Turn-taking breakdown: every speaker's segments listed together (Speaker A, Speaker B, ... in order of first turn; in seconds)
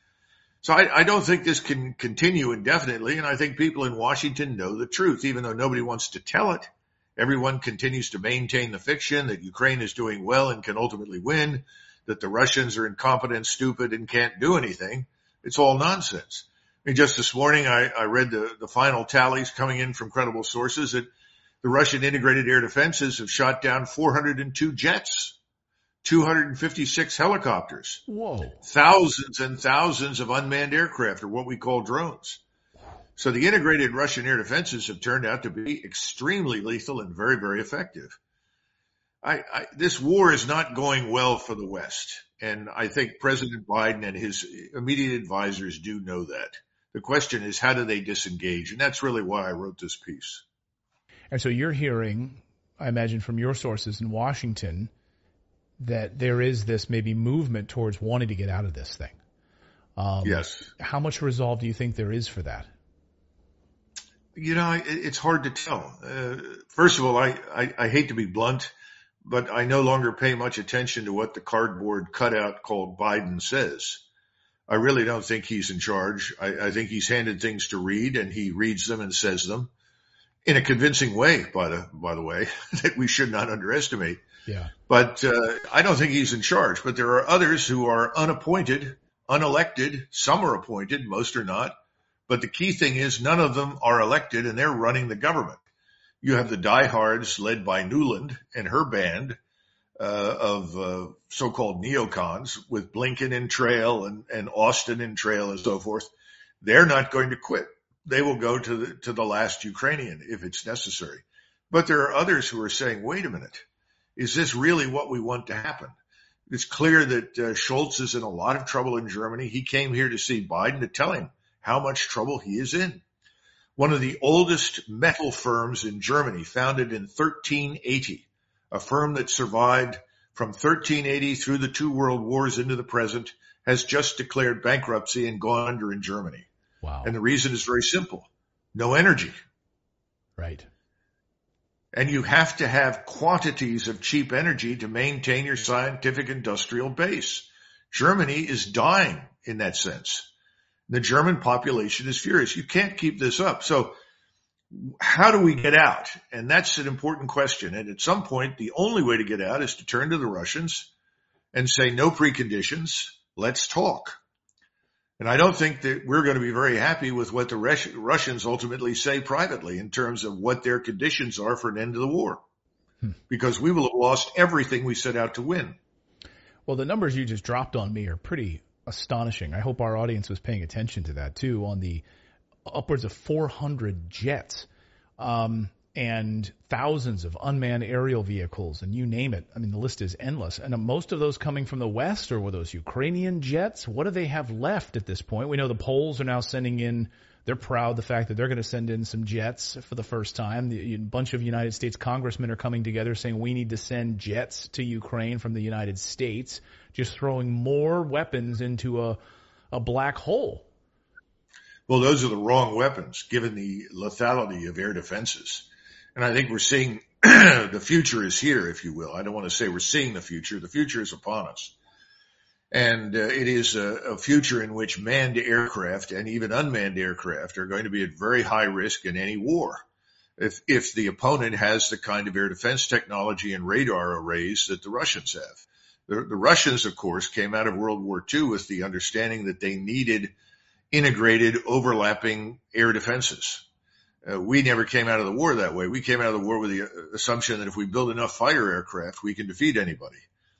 Speaker A: 0.6-21.1, 21.6-25.4, 26.0-28.1, 28.6-32.4, 33.2-38.2, 39.2-50.4, 60.2-60.7, 64.3-68.7, 69.2-74.0, 74.7-79.7, 80.5-84.2, 84.9-91.7, 92.3-95.6, 96.2-99.4, 100.0-106.1, 106.6-113.6, 114.2-116.0, 116.5-123.0, 123.8-136.5, 137.0-139.4, 141.9-150.3, 150.9-153.9, 154.7-160.9, 161.5-164.2, 165.2-172.4, 173.3-175.8, 211.9-221.8, 222.7-229.8, 230.4-240.3, 240.9-243.7, 244.2-250.2
Speaker B: 28.1-28.6, 51.3-54.9, 55.8-59.2, 60.0-62.7, 84.5-84.7, 136.8-137.1, 140.4-140.7, 176.7-182.1, 182.7-184.7, 185.2-209.2, 209.7-210.7